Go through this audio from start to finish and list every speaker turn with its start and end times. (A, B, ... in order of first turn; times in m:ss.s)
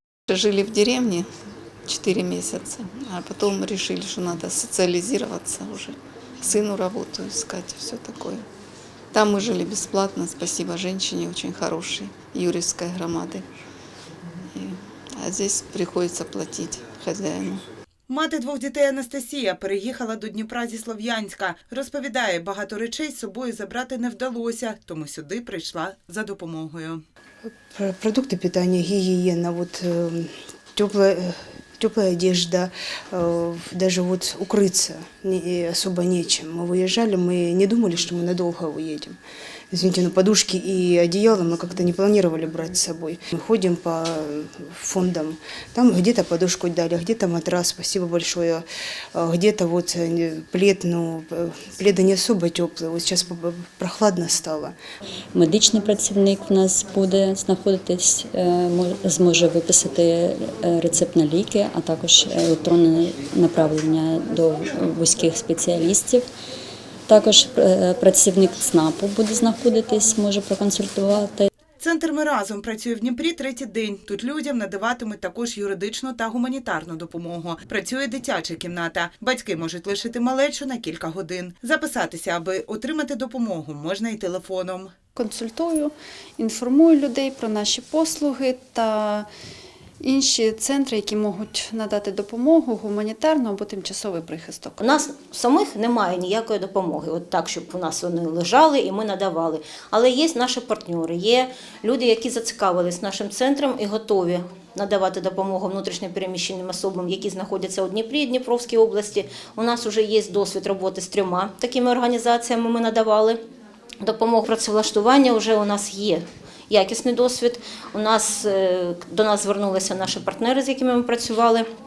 0:00.3-0:01.3 A
0:01.8-0:08.4 A
0:09.1-0:13.4 A
0:14.5-0:17.6 A
0:18.1-0:27.0 B
0:27.7-0:39.2 C
0:39.7-0:48.6 C
0:49.1-0:54.7 C
0:55.3-1:06.2 D
1:07.1-1:11.5 D
1:11.8-1:24.9 B
1:25.2-1:29.2 E
1:30.0-1:34.7 E
1:34.8-1:53.4 F
1:54.0-2:01.6 F